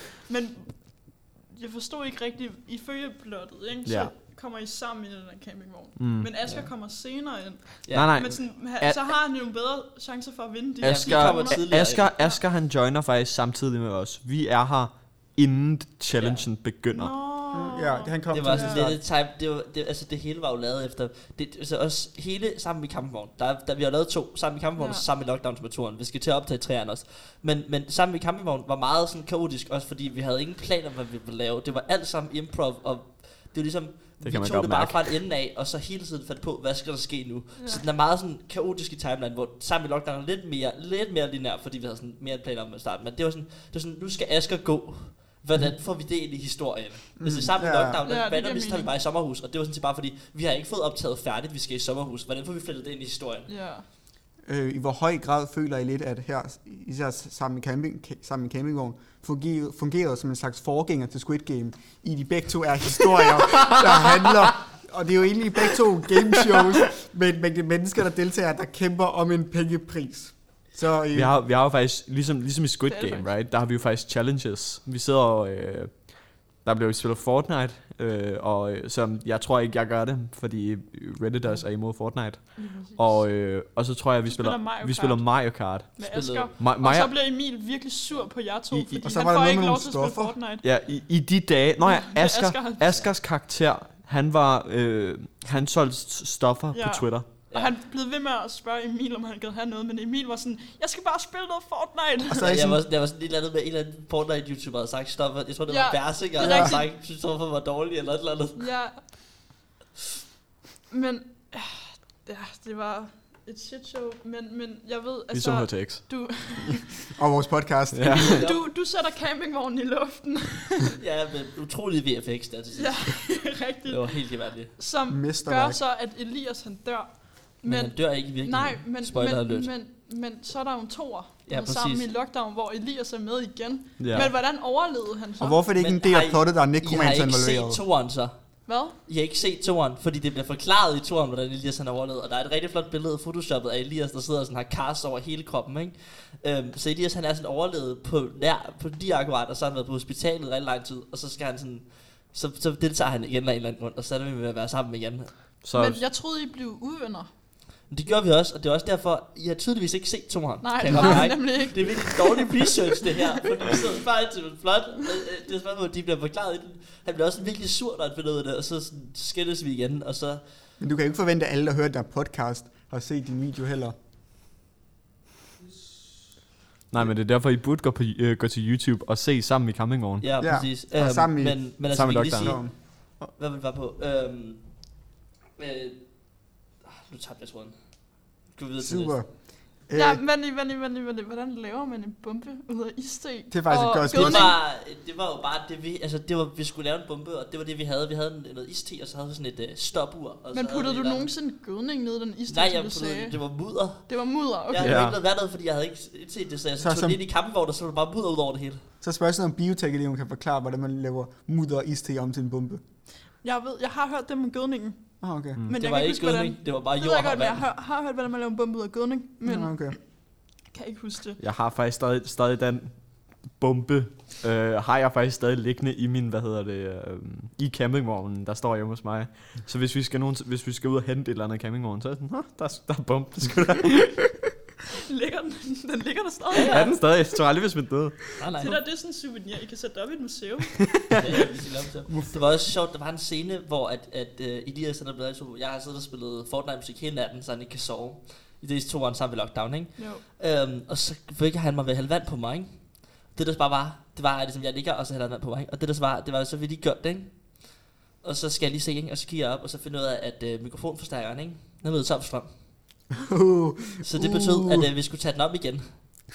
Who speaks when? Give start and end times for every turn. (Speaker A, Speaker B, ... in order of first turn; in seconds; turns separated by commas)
Speaker A: 0.2-12.4, Speaker B: 3.9-4.1, Speaker B: 6.0-6.3, Speaker C: 7.8-8.1, Speaker B: 7.9-9.0, Speaker B: 10.8-17.1, Speaker C: 10.8-12.1, Speaker C: 16.1-16.4, Speaker A: 16.9-18.9, Speaker D: 17.5-19.0, Speaker C: 18.3-53.5, Speaker A: 24.8-25.0, Speaker B: 34.2-35.1, Speaker A: 37.6-37.8, Speaker D: 47.2-48.0, Speaker A: 48.0-48.9, Speaker A: 53.5-53.8, Speaker D: 54.4-71.3, Speaker B: 71.1-86.0, Speaker A: 72.9-73.3, Speaker A: 82.5-83.1, Speaker A: 84.2-90.6, Speaker C: 86.1-86.5, Speaker B: 86.6-87.1, Speaker D: 89.0-90.3, Speaker B: 90.6-97.3, Speaker A: 91.8-93.0, Speaker A: 96.7-102.6, Speaker D: 102.3-102.8, Speaker C: 102.4-108.7, Speaker A: 105.7-106.9, Speaker D: 106.4-106.7, Speaker A: 108.6-109.0, Speaker A: 110.9-116.9, Speaker B: 115.3-116.1, Speaker D: 117.2-118.3, Speaker B: 117.9-118.4, Speaker A: 118.1-120.9, Speaker C: 118.2-118.6, Speaker C: 121.0-123.3, Speaker A: 122.8-124.2, Speaker C: 123.9-124.7, Speaker A: 124.8-135.6, Speaker D: 125.1-125.8, Speaker C: 127.6-129.7, Speaker C: 131.5-132.1, Speaker B: 134.0-134.3, Speaker D: 135.4-137.8, Speaker C: 135.8-155.3, Speaker A: 138.7-138.9, Speaker B: 155.6-156.0, Speaker A: 155.7-157.3, Speaker C: 157.9-170.4, Speaker A: 160.6-163.2, Speaker D: 170.8-173.9, Speaker B: 176.9-180.2, Speaker C: 180.2-184.6, Speaker D: 180.4-181.7, Speaker B: 181.9-182.6, Speaker D: 182.4-182.7, Speaker C: 185.6-186.0, Speaker C: 186.8-187.8, Speaker C: 188.5-189.2, Speaker D: 188.8-189.3, Speaker D: 189.8-190.2, Speaker A: 189.9-194.6, Speaker D: 193.5-194.5, Speaker C: 194.1-201.3, Speaker A: 200.5-203.4, Speaker C: 202.5-204.1, Speaker A: 204.1-205.0, Speaker C: 204.7-208.8, Speaker B: 204.8-205.2, Speaker D: 206.8-207.2, Speaker D: 209.0-212.8, Speaker A: 213.4-215.0, Speaker D: 215.2-215.6, Speaker A: 215.7-220.0, Speaker C: 215.8-217.6, Speaker D: 219.4-220.0, Speaker A: 220.7-221.4, Speaker B: 221.4-234.4, Speaker A: 235.0-236.9, Speaker C: 236.5-236.9, Speaker B: 236.6-238.3, Speaker C: 238.4-238.8, Speaker A: 238.6-241.0, Speaker C: 241.1-257.7, Speaker D: 242.1-242.3, Speaker A: 250.0-250.2, Speaker C: 258.2-262.5, Speaker D: 263.1-264.9, Speaker C: 264.0-266.0